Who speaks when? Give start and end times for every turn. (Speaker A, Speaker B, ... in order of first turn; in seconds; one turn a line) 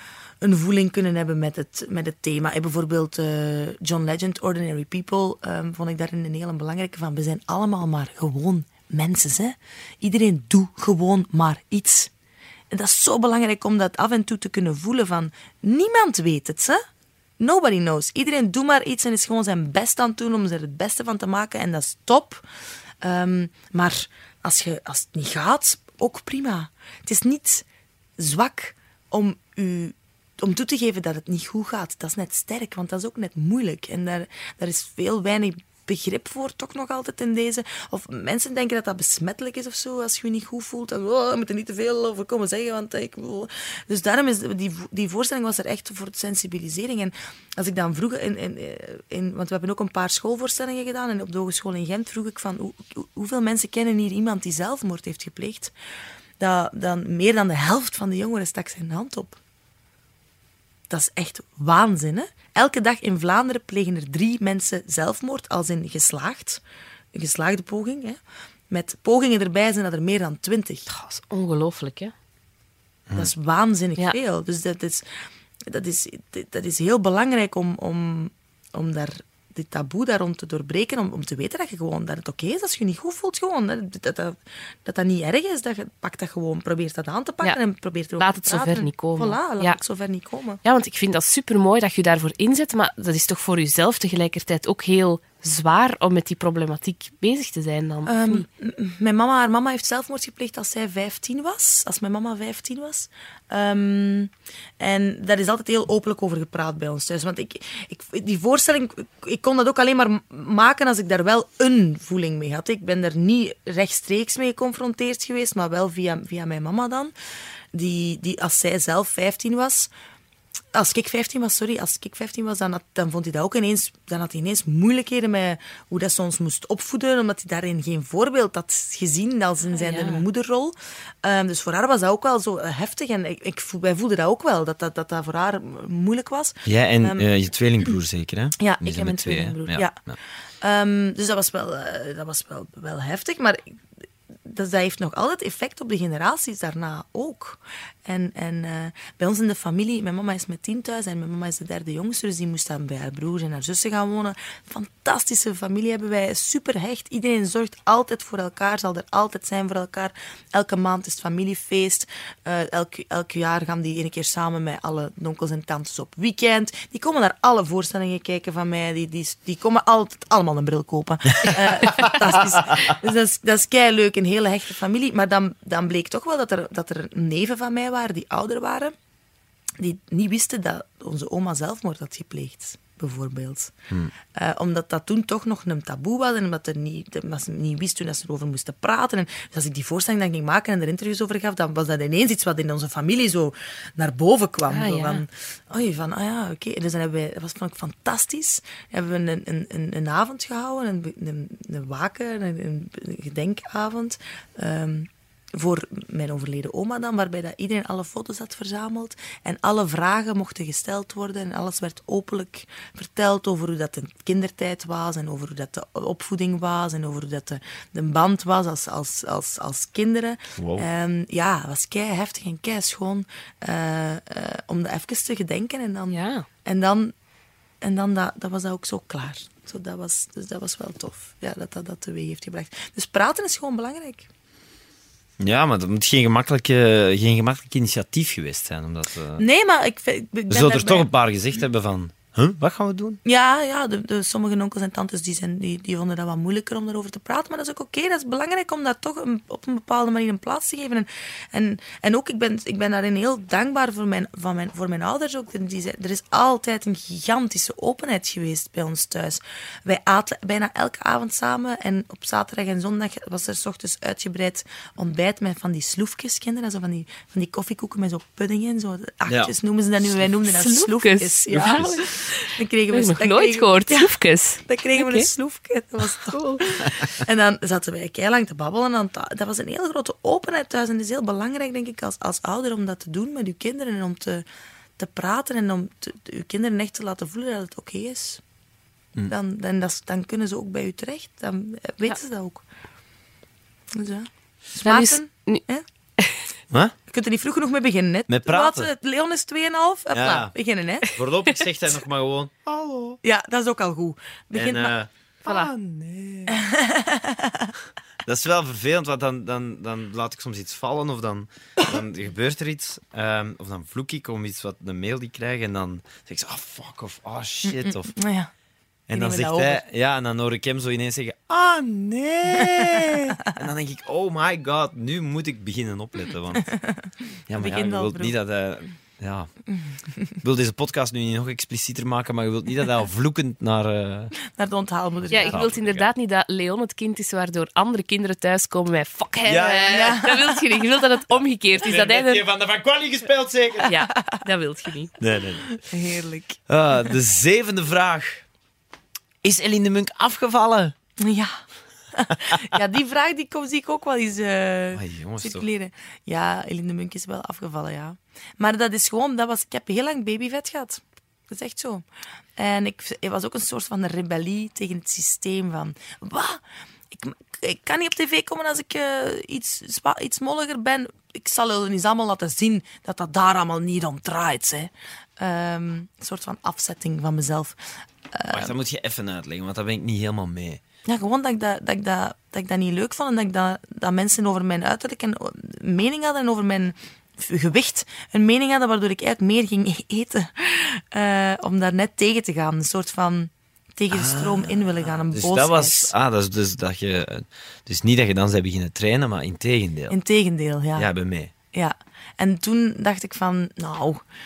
Speaker A: 0.4-12.1
Speaker A: 12.7-16.8
Speaker A: 17.4-22.4
Speaker A: 23.0-27.6
Speaker A: 28.2-55.7
Speaker A: 56.4-59.4
Speaker A: 60.9-66.6
Speaker A: 67.1-68.2
Speaker A: 68.7-70.9
Speaker B: 70.9-72.1
Speaker A: 73.1-75.0
Speaker A: 75.7-90.6
Speaker B: 88.2-89.8
Speaker B: 90.6-98.5
Speaker A: 98.0-117.1
Speaker A: 117.7-119.9
Speaker A: 120.7-137.3
Speaker B: 129.7-130.2
Speaker C: 136.7-140.2
Speaker A: 138.6-139.9
Speaker A: 140.6-143.7
Speaker A: 144.4-178.9
Speaker C: 171.4-172.9
Speaker A: 179.8-183.7
Speaker A: 184.3-227.1
Speaker B: 194.7-195.2
Speaker C: 220.6-220.8
Speaker B: 226.1-226.4
Speaker A: 227.8-234.3
Speaker C: 235.4-239.4
Speaker A: 239.4-241.1
Speaker C: 240.5-243.2
Speaker A: 243.2-284.4
Speaker C: 269.3-269.5
Speaker B: 270.5-275.3
Speaker C: 271.5-272.0
Speaker B: 276.3-276.6
Speaker A: 285.0-288.4
Speaker A: 289.2-292.6
Speaker A: 293.9-295.8
Speaker B: 294.8-295.6
Speaker A: 297.1-301.1
Speaker C: 298.3-298.9
Speaker C: 300.1-300.5
Speaker C: 301.0-303.2
Speaker A: 303.2-305.0
Speaker C: 304.5-306.6
Speaker B: 305.4-305.7
Speaker A: 306.5-307.7
Speaker C: 308.2-318.1
Speaker A: 317.6-318.5
Speaker C: 319.1-326.8
Speaker A: 319.1-319.8
Speaker A: 326.7-328.4
Speaker C: 327.5-329.5
Speaker C: 330.4-334.3
Speaker A: 334.4-335.6
Speaker C: 335.3-336.1
Speaker B: 335.3-342.4
Speaker C: 339.4-340.2
Speaker A: 339.9-340.6
Speaker C: 341.7-343.9
Speaker B: 343.9-345.1
Speaker A: 344.1-344.4
Speaker C: 345.2-345.8
Speaker A: 345.6-347.1
Speaker C: 346.7-348.4
Speaker C: 349.4-350.9
Speaker A: 351.2-351.6
Speaker A: 352.1-362.0
Speaker C: 354.9-355.6
Speaker A: 362.6-377.8
Speaker A: 378.3-378.7
Speaker C: 378.5-380.8
Speaker A: 381.1-396.1
Speaker C: 394.1-400.2
Speaker A: 400.1-401.1
Speaker C: 400.9-401.5
Speaker A: 401.7-404.2